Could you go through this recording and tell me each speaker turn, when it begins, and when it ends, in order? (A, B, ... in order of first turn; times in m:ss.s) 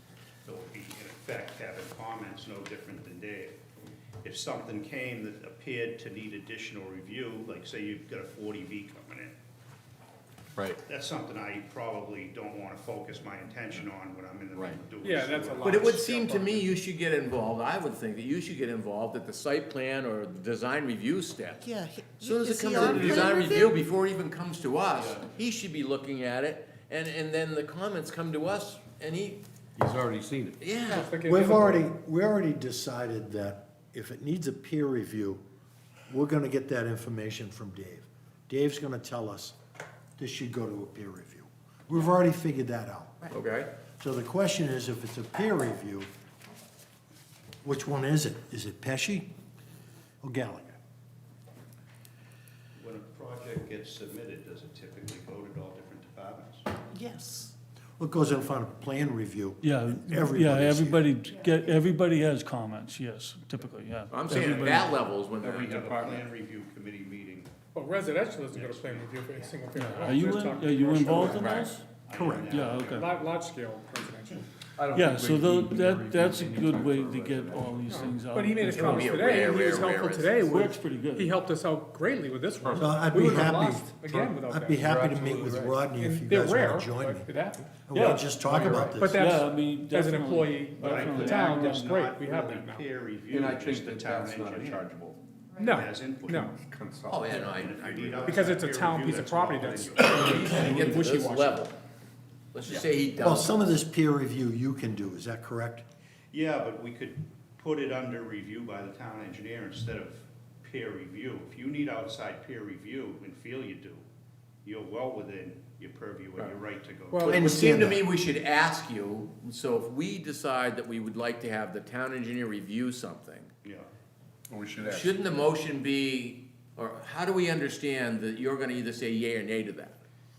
0:00.4-0:03.6 A
0:04.2-0:09.3 A
0:10.8-0:16.7 A
0:15.0-0:16.2 B
0:15.6-0:29.4 C
0:21.6-0:23.8 D
0:29.8-0:30.6 E
0:30.6-0:31.1 C
0:30.8-0:31.9 B
0:31.2-0:35.4 F
0:36.1-0:39.6 F
0:40.2-0:43.3 F
0:43.3-0:43.7 C
0:44.0-0:46.1 F
0:47.6-0:49.3 F
0:50.2-0:50.8 F
0:52.8-0:56.7 A
0:56.9-0:57.5 D
0:58.0-1:01.1 F
0:59.6-1:04.8 G
1:04.1-1:05.8 C
1:04.3-1:07.6 A
1:05.7-1:06.2 E
1:07.7-1:11.3 B
1:08.3-1:13.1 A
1:09.7-1:11.8 G
1:11.2-1:11.7 C
1:12.1-1:12.5 F
1:12.5-1:13.1 G
1:12.9-1:14.4 B
1:14.8-1:18.1 E
1:14.9-1:19.3 G
1:17.9-1:24.8 B
1:18.7-1:20.5 C
1:20.4-1:21.3 G
1:22.6-1:23.4 E
1:22.7-1:29.4 F
1:24.8-1:25.8 E
1:25.4-1:27.6 B
1:27.9-1:28.4 G
1:28.4-1:29.0 E
1:28.9-1:32.9 B
1:29.0-1:31.9 G
1:30.8-1:34.9 A
1:33.3-1:35.2 E
1:35.6-1:36.5 B
1:35.6-1:36.5 A
1:36.5-1:37.6 E
1:37.1-1:38.5 C
1:37.3-1:40.8 A
1:38.2-1:41.6 B
1:40.1-1:41.7 C
1:42.5-1:43.6 C
1:43.2-1:45.8 F
1:46.3-1:54.0 A
1:54.6-1:57.3 A
1:57.1-1:57.4 B
1:57.2-2:03.5 C
1:57.3-1:58.0 F
2:04.5-2:05.2 E
2:04.8-2:10.0 C